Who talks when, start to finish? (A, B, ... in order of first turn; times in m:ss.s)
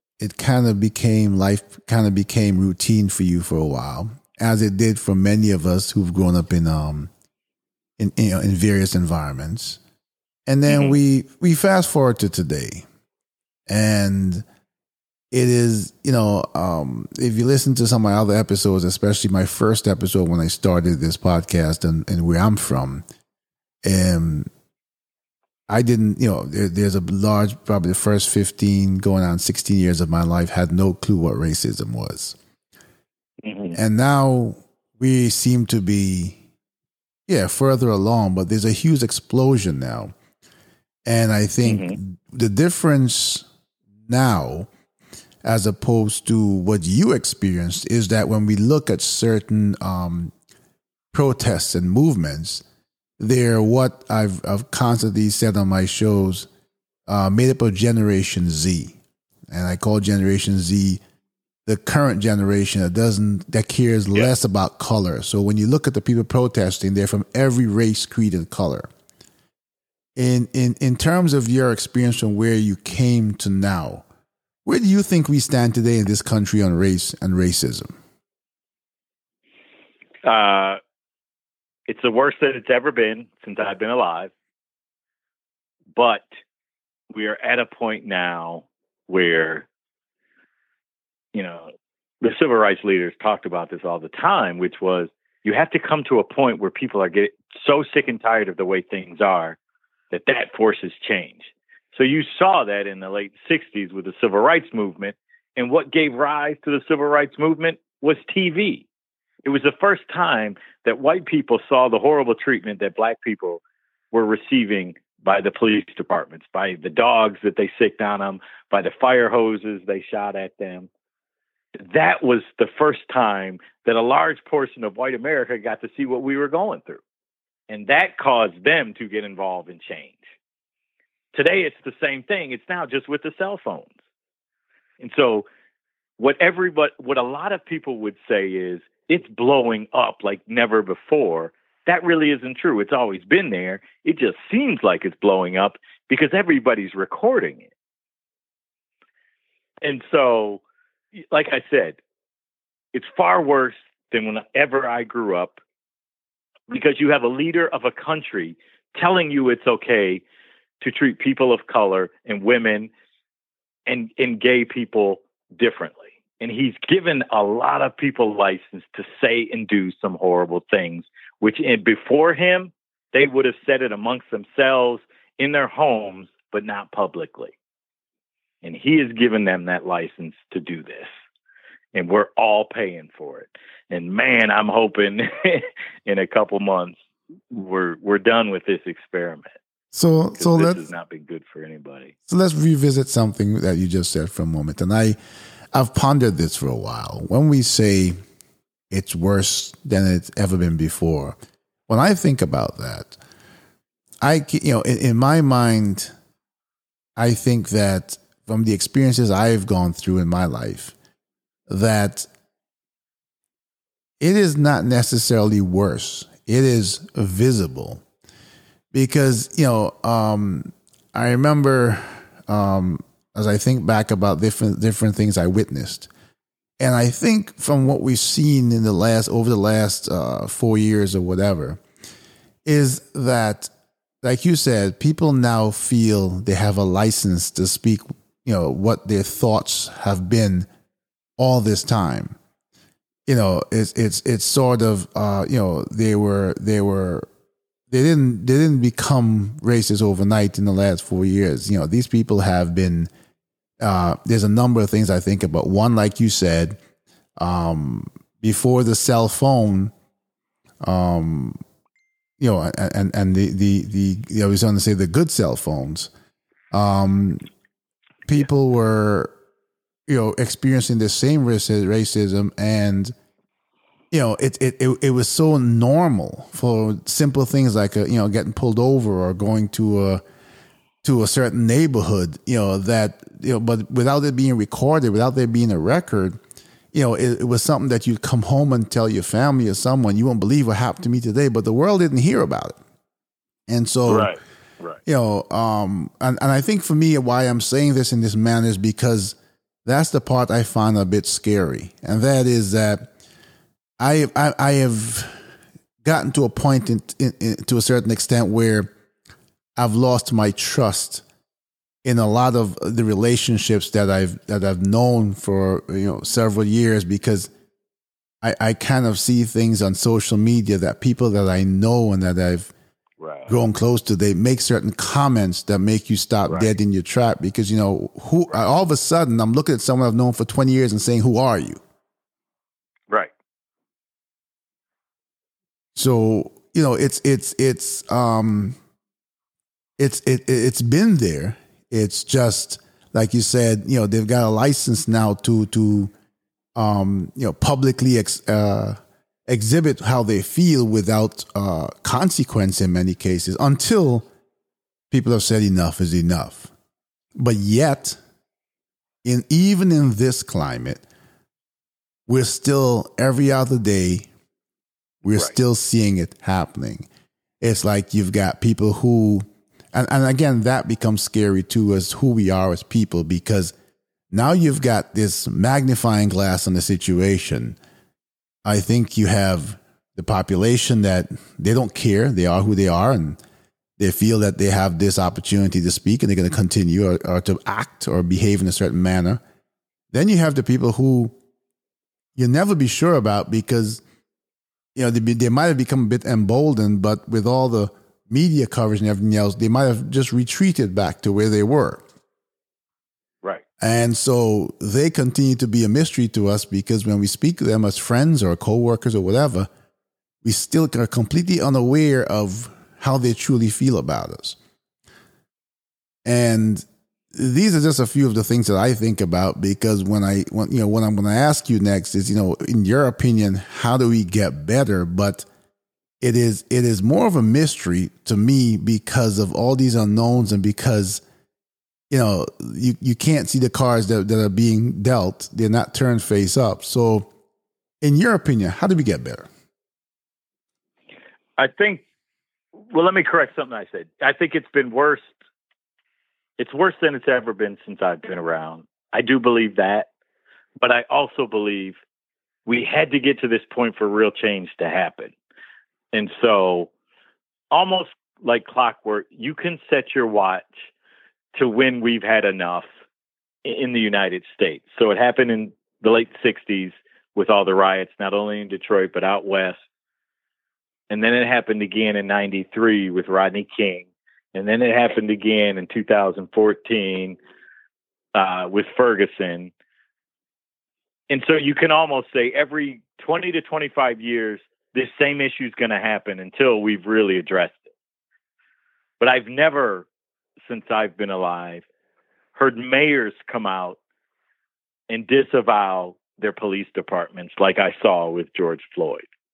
0:00.2-0:07.1 A
0:08.0-0:09.8 A
0:10.5-0:12.8 A
0:10.7-0:11.0 B
0:13.7-0:14.4 A
0:15.3-0:23.0 A
0:23.8-0:24.5 A
0:25.7-0:32.4 A
0:33.4-0:33.8 B
0:33.7-0:36.4 A
0:37.3-0:40.1 A
0:41.0-0:43.5 A
0:41.6-0:42.0 B
0:44.1-0:44.7 A
0:45.4-0:50.3 A
0:51.1-0:52.6 A
0:53.2-0:56.5 A
0:57.1-0:59.0 A
0:59.5-1:01.0 A
1:01.6-1:08.9 A
1:10.2-1:14.0 A
1:14.6-1:17.9 A
1:20.2-1:20.8 B
1:21.9-1:24.3 B
1:26.0-1:26.2 B
1:27.1-1:29.7 B
1:31.3-1:31.7 B
1:32.2-1:39.6 B
1:40.1-1:48.9 B
1:49.4-2:00.9 B
2:01.8-2:07.0 B
2:07.7-2:10.2 B
2:11.3-2:14.0 B
2:15.0-2:15.5 B
2:16.2-2:27.7 B
2:29.8-2:30.6 B
2:31.2-2:32.0 B
2:32.9-2:35.6 B
2:36.7-2:40.2 B
2:40.8-2:42.9 B
2:43.9-2:57.5 B
2:58.6-3:01.1 B
3:01.9-3:07.0 B
3:07.5-3:09.5 B
3:09.9-3:10.8 A
3:10.4-3:12.1 B
3:12.3-3:15.2 A
3:15.7-3:18.2 A
3:18.9-3:21.4 A
3:21.9-3:23.2 A
3:24.2-3:26.1 A
3:27.2-3:30.9 A
3:31.7-3:32.3 A
3:34.2-3:38.0 A
3:38.9-3:46.1 A
3:46.8-3:51.8 A
3:52.6-3:53.7 A
3:54.2-4:00.7 A
4:01.4-4:02.4 A
4:03.3-4:07.3 A
4:07.9-4:13.1 A
4:13.8-4:16.8 A
4:17.4-4:19.9 A
4:20.8-4:21.6 A
4:22.4-4:26.1 A
4:26.7-4:27.5 A
4:28.2-4:29.3 A
4:30.1-4:33.1 A
4:34.1-4:40.2 A
4:41.0-4:46.4 A
4:46.9-4:52.8 A
4:53.7-4:54.3 A
4:54.1-4:55.0 B
4:55.0-5:03.1 A
5:04.0-5:05.4 A
5:06.0-5:08.9 A
5:09.8-5:11.2 A
5:12.0-5:17.5 A
5:18.4-5:22.7 A
5:23.2-5:23.5 B
5:23.5-5:31.8 A
5:26.5-5:26.7 B
5:35.9-5:38.8 A
5:40.0-5:46.1 A
5:46.8-5:54.3 A
5:55.1-5:56.7 A
5:57.4-5:58.2 A
5:59.2-6:01.0 A
6:02.3-6:04.3 A
6:05.2-6:07.1 A
6:07.6-6:13.7 A
6:14.3-6:17.8 A
6:18.6-6:23.4 A
6:24.0-6:29.4 A
6:30.1-6:31.3 A
6:32.4-6:34.0 A
6:34.9-6:42.0 A
6:43.8-6:49.7 A
6:50.4-6:54.6 A
6:56.2-7:05.4 A
7:06.2-7:11.2 A
7:12.1-7:17.3 A
7:18.0-7:19.5 A
7:21.6-7:22.0 B
7:22.9-7:25.4 B
7:26.6-7:30.1 B
7:30.8-7:32.0 B
7:32.6-7:35.3 B
7:36.1-7:36.9 B
7:37.7-7:40.9 B
7:41.5-7:42.9 B
7:43.6-7:49.8 B
7:51.1-7:57.4 B
7:58.3-7:59.7 B
8:01.3-8:07.9 B
8:09.2-8:10.1 B
8:10.7-8:11.8 B
8:12.5-8:14.0 B
8:15.1-8:19.2 B